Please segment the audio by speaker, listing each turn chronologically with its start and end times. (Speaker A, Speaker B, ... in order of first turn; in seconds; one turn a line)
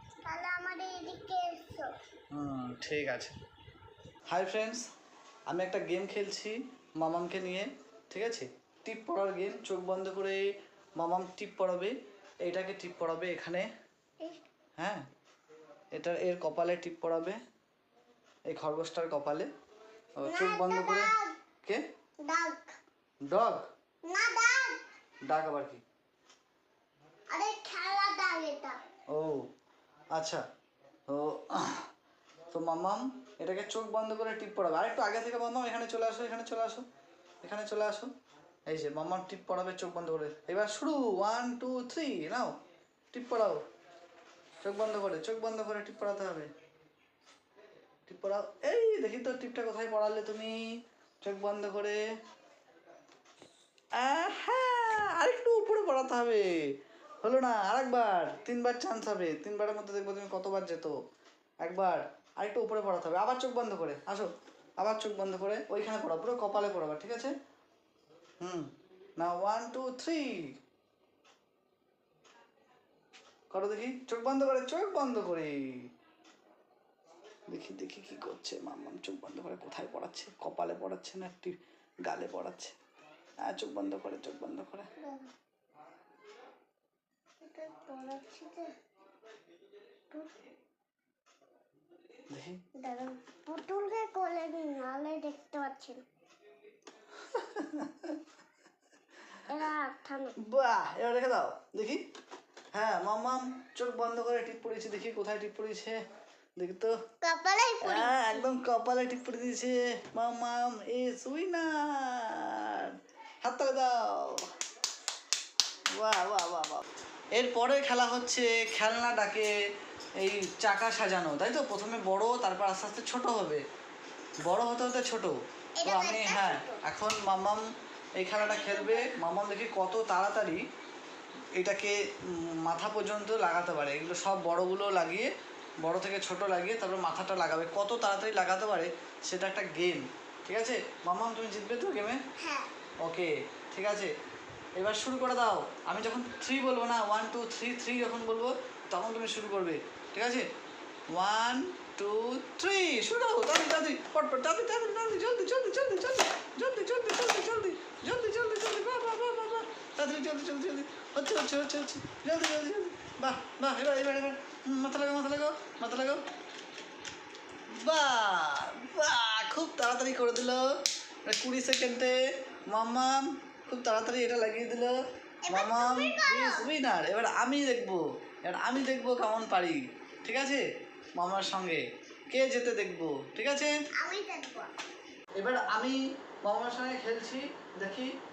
Speaker A: 0.2-1.9
Speaker B: 2.3-3.4
Speaker B: 4.3-4.8
Speaker B: 5.5-10.4
Speaker B: 11.0-11.9
Speaker B: 12.4-13.7
Speaker B: 15.9-17.4
Speaker B: 18.5-19.5
Speaker B: 20.2-21.1
Speaker A: 20.2-21.4
Speaker A: 22.2-22.7
Speaker B: 23.2-23.6
Speaker A: 24.1-24.8
Speaker B: 25.2-25.8
Speaker A: 27.3-28.8
Speaker B: 29.1-29.4
Speaker B: 30.1-30.4
Speaker B: 31.1-31.9
Speaker B: 32.5-36.8
Speaker B: 37.4-38.1
Speaker B: 38.7-42.5
Speaker B: 43.1-43.6
Speaker B: 44.6-46.5
Speaker B: 48.0-50.6
Speaker B: 51.2-52.0
Speaker B: 54.0-56.5
Speaker B: 57.2-61.0
Speaker B: 61.6-64.3
Speaker B: 64.8-67.3
Speaker B: 68.4-70.5
Speaker B: 73.5-75.6
Speaker B: 77.5-82.8
Speaker B: 83.4-84.9
Speaker A: 85.0-85.3
Speaker A: 87.4-88.7
Speaker A: 90.1-90.4
Speaker B: 92.3-92.6
Speaker A: 92.8-96.0
Speaker B: 97.2-98.2
Speaker A: 99.5-100.3
Speaker B: 100.4-102.0
Speaker B: 102.7-106.0
Speaker B: 106.6-106.9
Speaker A: 107.2-108.4
Speaker B: 107.8-114.4
Speaker B: 115.9-116.8
Speaker B: 117.4-119.5
Speaker B: 120.2-123.6
Speaker B: 124.4-127.6
Speaker A: 125.8-126.8
Speaker B: 128.2-130.6
Speaker A: 128.4-129.2
Speaker B: 131.6-135.3
Speaker B: 135.8-142.2
Speaker A: 142.4-142.7
Speaker B: 143.0-144.1
Speaker B: 144.8-150.5
Speaker B: 151.1-166.2
Speaker B: 167.7-170.6
Speaker B: 171.2-172.1
Speaker B: 172.7-174.9
Speaker A: 175.4-176.7
Speaker B: 175.5-180.6
Speaker B: 181.2-183.7
Speaker A: 184.0-184.7
Speaker B: 185.4-188.1